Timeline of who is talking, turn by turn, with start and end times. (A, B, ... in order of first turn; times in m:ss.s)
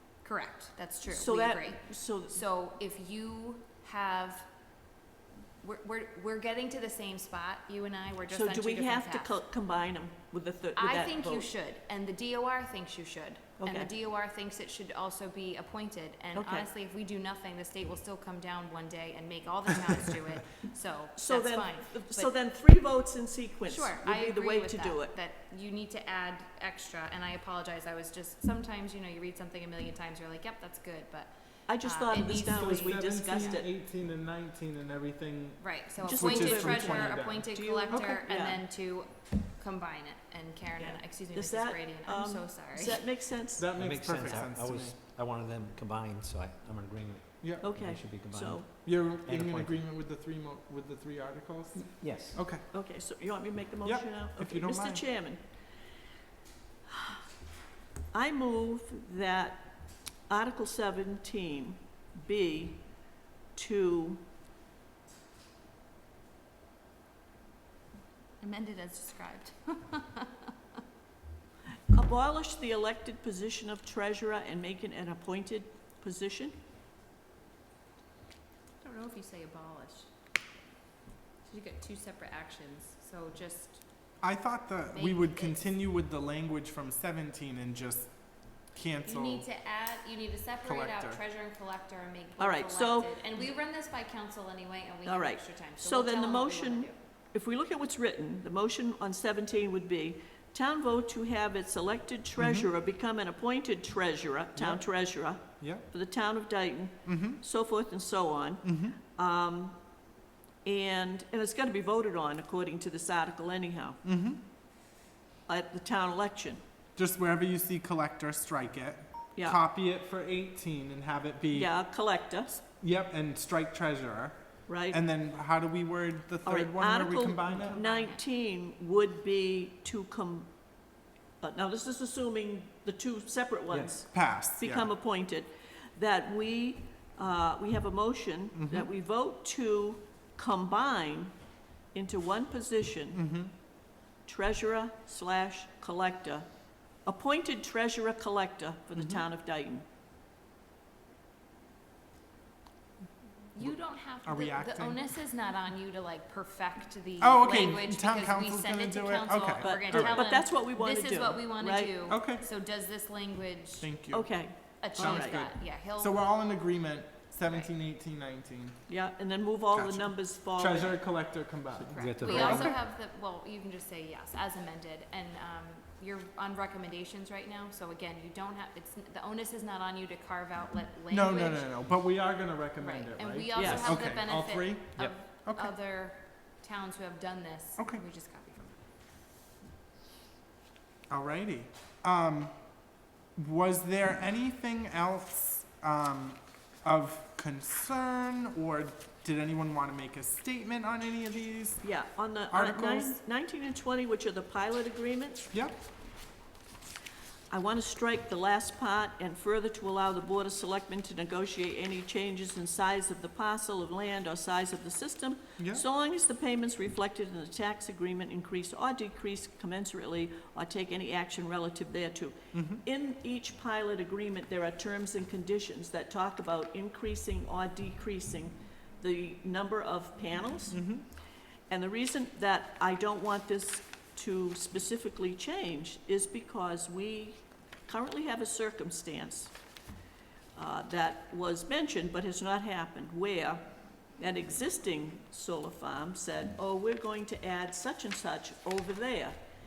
0:00.2-0:04.5 A
0:01.1-0:02.4 B
0:05.6-0:09.3 A
0:08.3-0:11.5 B
0:10.8-0:22.3 A
0:13.6-0:13.9 B
0:16.3-0:16.7 B
0:21.2-0:25.1 B
0:23.7-0:33.6 A
0:31.7-0:33.7 B
0:32.4-0:38.2 C
0:35.6-0:43.0 A
0:36.0-0:38.6 B
0:40.8-0:43.7 B
0:43.6-0:45.0 C
0:43.8-0:49.8 D
0:47.4-0:47.8 C
0:47.6-0:48.6 B
0:48.8-0:52.7 C
0:52.0-0:52.4 D
0:52.7-0:55.5 B
0:53.8-0:55.0 C
0:58.1-1:02.9 B
1:03.5-1:04.2 B
1:08.4-1:10.5 A
1:11.9-1:16.5 B
1:18.8-1:20.1 A
1:21.5-1:24.1 A
1:24.2-1:29.5 C
1:24.9-1:25.7 A
1:29.0-1:37.0 A
1:30.6-1:31.2 C
1:32.4-1:33.2 B
1:35.0-1:49.8 B
1:42.4-1:42.7 C
1:44.6-1:45.9 C
1:47.0-1:47.4 C
1:48.6-1:49.0 C
1:50.6-1:54.0 B
1:54.0-1:54.4 C
1:55.5-1:56.6 B
1:57.0-2:01.7 C
2:01.5-2:02.6 B
2:02.8-2:07.8 C
2:04.7-2:05.0 B
2:06.4-2:10.5 B
2:07.5-2:08.2 A
2:11.4-2:21.4 B
2:13.7-2:14.9 C
2:18.5-2:18.9 C
2:21.9-2:23.2 B
2:23.1-2:23.5 C
2:24.2-2:26.5 B
2:27.0-2:29.8 B
2:29.0-2:29.2 C
2:33.6-2:43.9 A
2:33.6-2:35.0 C
2:37.2-2:40.2 C
2:39.6-2:42.1 B
2:42.1-2:42.4 C
2:43.8-2:48.9 C
2:44.1-2:45.4 B
2:44.8-2:46.2 A
2:47.4-2:47.7 A
2:48.9-2:51.0 B
2:49.7-2:52.8 C
2:51.8-2:52.8 D
2:51.9-3:01.7 A
3:01.1-3:05.7 C
3:02.8-3:08.8 A
3:03.6-3:03.8 B
3:03.6-3:04.1 D
3:07.8-3:08.0 C
3:11.1-3:21.9 C
3:21.8-3:25.5 B
3:22.5-3:23.2 C
3:25.5-3:25.8 C
3:27.5-3:50.9 B
3:35.6-3:35.8 C
3:42.5-3:42.8 C
3:50.7-3:51.1 C
3:51.7-3:59.5 B
4:00.6-4:03.6 B
4:04.2-4:09.4 B